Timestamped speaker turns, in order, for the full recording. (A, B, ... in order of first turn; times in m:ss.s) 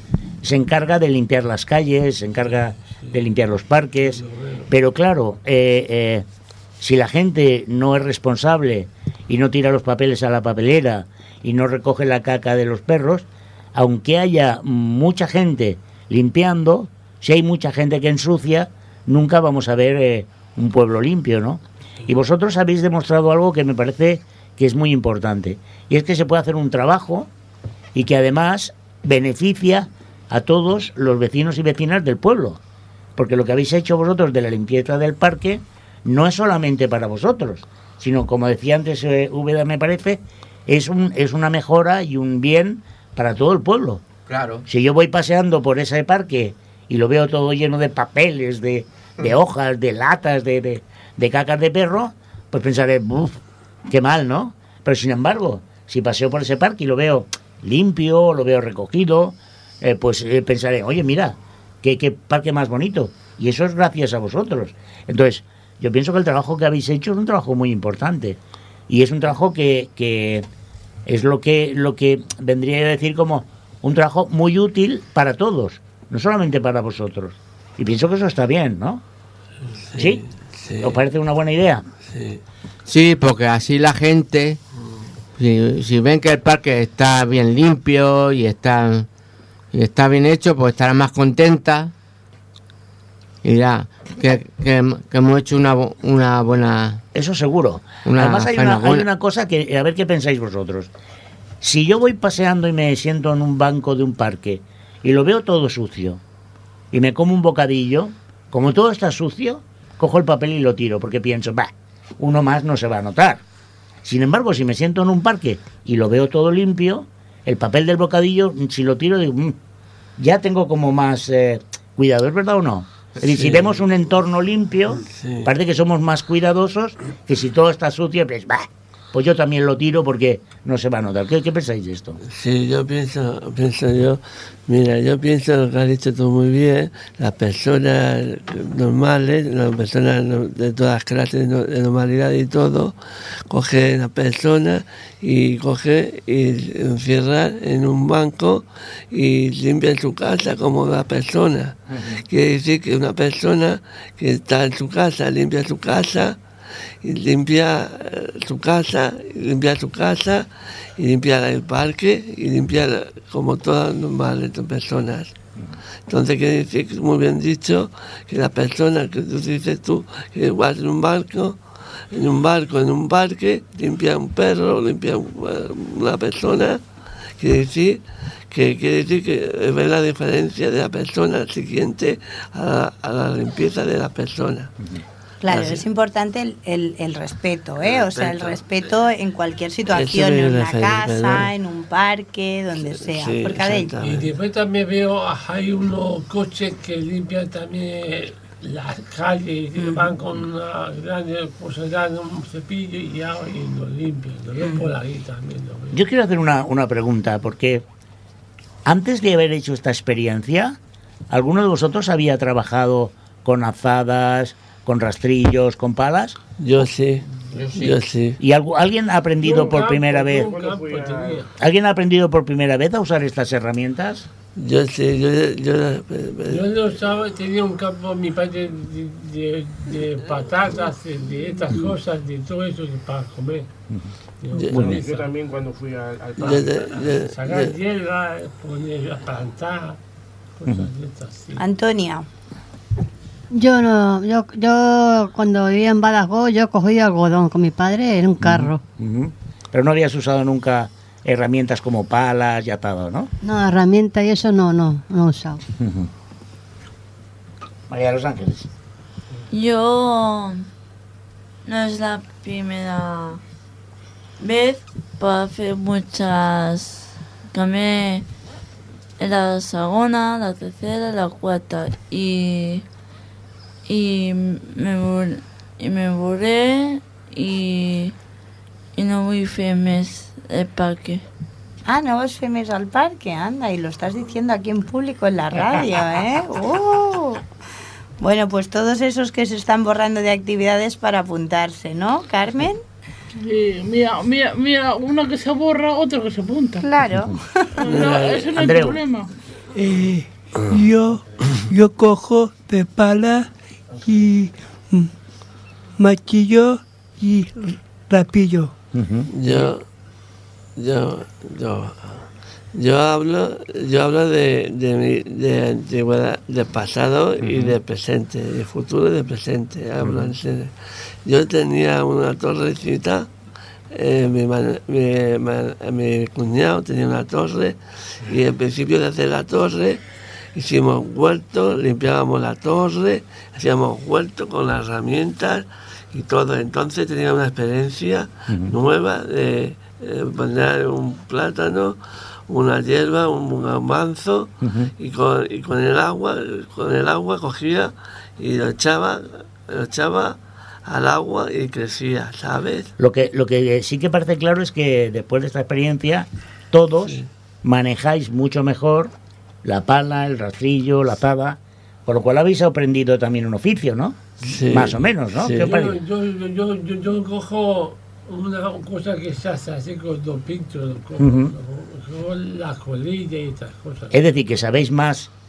0:00.4-0:06.2 A
0:04.1-0:04.7 B
0:06.8-0:27.3 A
0:27.9-0:32.6 A
0:33.2-0:44.0 A
0:44.3-0:44.6 C
0:44.7-1:10.4 A
1:11.0-1:19.0 A
1:19.9-1:21.0 D
1:20.0-1:20.2 A
1:20.8-1:21.8 A
1:22.1-1:22.4 D
1:22.8-1:24.6 C
1:25.4-1:29.1 C
1:29.7-1:31.9 C
1:33.4-1:37.0 C
1:37.1-1:40.9 A
1:38.0-1:39.0 C
1:41.6-1:46.2 A
1:46.9-1:53.4 A
1:54.0-1:59.6 A
2:00.2-2:12.2 A
2:03.3-2:03.7 D
2:05.2-2:05.5 D
2:12.3-2:22.9 D
2:23.5-2:36.4 D
2:37.0-2:40.4 D
2:41.0-2:45.3 D
2:46.1-2:51.6 D
2:52.1-2:56.8 D
2:57.4-3:04.7 D
3:05.4-3:13.9 E
3:05.5-3:05.8 D
3:07.8-3:08.6 D
3:09.9-3:11.5 D
3:12.8-3:14.3 D
3:14.0-3:26.0 B
3:19.8-3:20.1 E
3:25.9-3:27.8 A
3:28.8-3:30.8 A
3:31.3-3:36.4 A
3:36.6-3:37.2 D
3:37.5-3:37.9 C
3:37.6-3:37.8 B
3:37.8-3:38.4 D
3:38.4-3:40.5 A
3:39.4-3:41.5 B
3:39.5-3:41.5 F
3:41.6-3:44.3 A
3:44.6-3:46.6 D
3:46.5-3:53.7 B
3:54.4-3:55.3 B
3:54.6-3:55.0 D
3:54.7-3:56.8 F
3:56.4-4:00.0 B
3:56.4-3:57.7 D
4:00.6-4:01.6 B
4:01.6-4:02.2 E
4:03.5-4:08.8 G
4:08.4-4:13.3 A
4:13.4-4:15.6 G
4:15.8-4:16.1 A
4:17.9-4:18.7 A
4:19.5-4:20.6 H
4:21.6-4:23.4 H
4:24.4-4:28.2 H
4:29.2-4:32.8 H
4:33.9-4:38.1 H
4:39.0-4:41.2 H
4:41.8-4:47.4 E
4:48.2-4:52.8 E
4:53.4-4:56.8 I
4:56.8-4:57.8 E
4:57.8-4:59.3 I
4:57.8-4:58.5 D
4:58.6-4:59.0 A
4:59.7-5:03.5 J
5:04.0-5:05.1 J
5:06.0-5:08.7 J
5:08.9-5:09.3 A
5:09.3-5:09.8 D
5:10.8-5:20.7 D
5:21.2-5:23.3 D
5:23.9-5:30.0 D
5:30.5-5:42.0 D
5:38.5-5:38.8 A
5:42.5-5:52.9 D
5:44.6-5:44.9 A
5:53.0-5:59.1 A
5:59.6-6:06.0 A
6:04.4-6:05.7 D
6:05.5-6:14.1 B
6:11.2-6:11.5 A
6:14.1-6:15.3 A